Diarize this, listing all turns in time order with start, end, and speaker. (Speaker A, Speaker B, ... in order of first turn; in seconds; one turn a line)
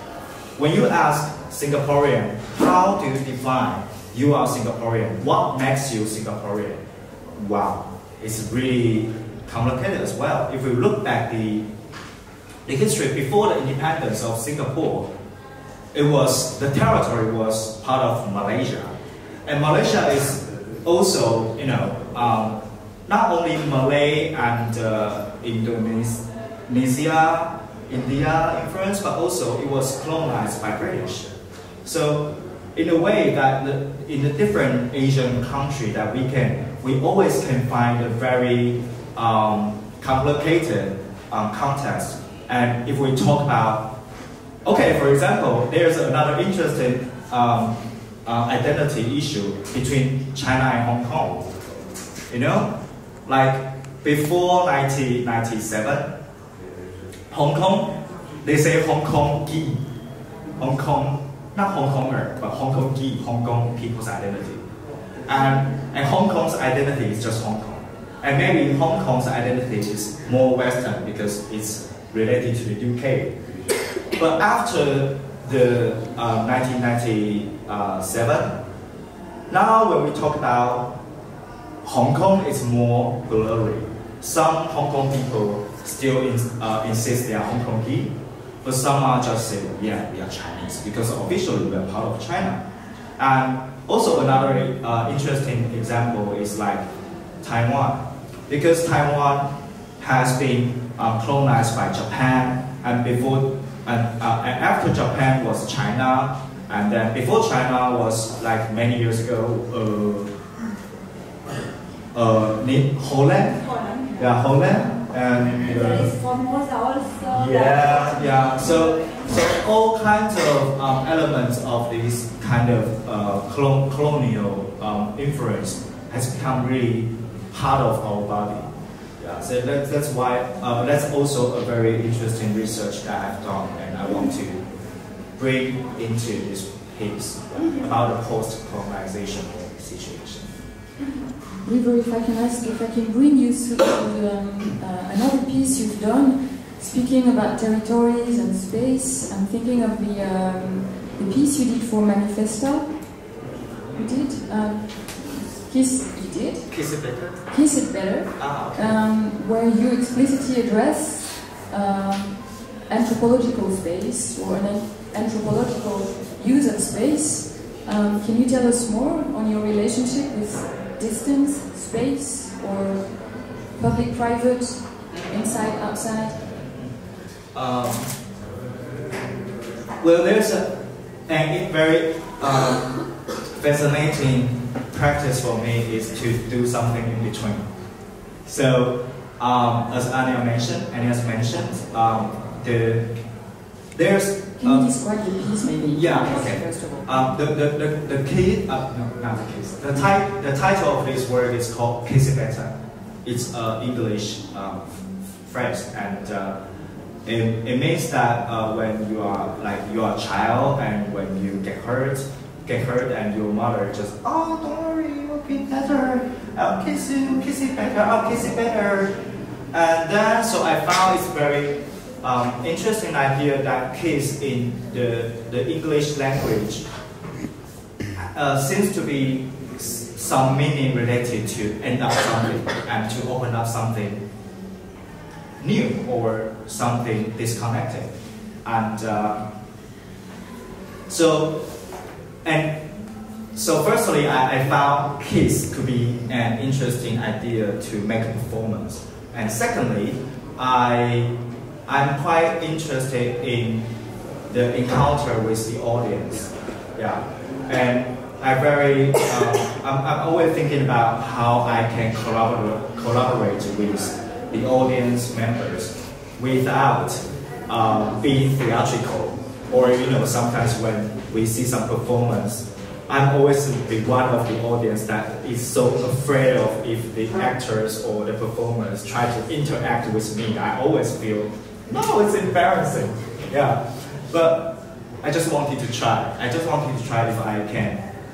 Speaker A: 0.6-11.7
Speaker A: 12.6-15.1
Speaker A: 15.9-43.9
Speaker A: 44.6-51.5
Speaker A: 52.3-52.7
Speaker A: 53.2-56.1
Speaker A: 57.3-59.8
Speaker A: 60.6-64.6
Speaker A: 65.2-73.3
Speaker A: 74.2-78.5
Speaker A: 79.5-80.9
Speaker A: 81.8-92.6
Speaker A: 93.2-96.8
Speaker A: 97.4-110.3
Speaker A: 112.1-113.6
Speaker B: 113.5-114.4
Speaker A: 114.2-116.1
Speaker B: 115.6-119.4
Speaker A: 117.3-134.7
Speaker A: 135.4-140.5
Speaker C: 141.6-153.0
Speaker C: 153.9-156.8
Speaker A: 156.7-157.5
Speaker C: 157.5-176.4
Speaker A: 158.3-159.0
Speaker A: 177.5-178.1
Speaker A: 180.0-187.6
Speaker A: 188.4-193.1
Speaker A: 193.9-194.9
Speaker C: 194.6-197.1
Speaker A: 195.9-206.6
Speaker A: 207.2-219.2
Speaker A: 219.7-226.8
Speaker A: 228.2-234.2
Speaker A: 235.6-238.1
Speaker A: 238.6-239.5
Speaker A: 241.1-241.6
Speaker A: 242.4-242.8
Speaker A: 243.5-253.9
Speaker A: 254.5-288.0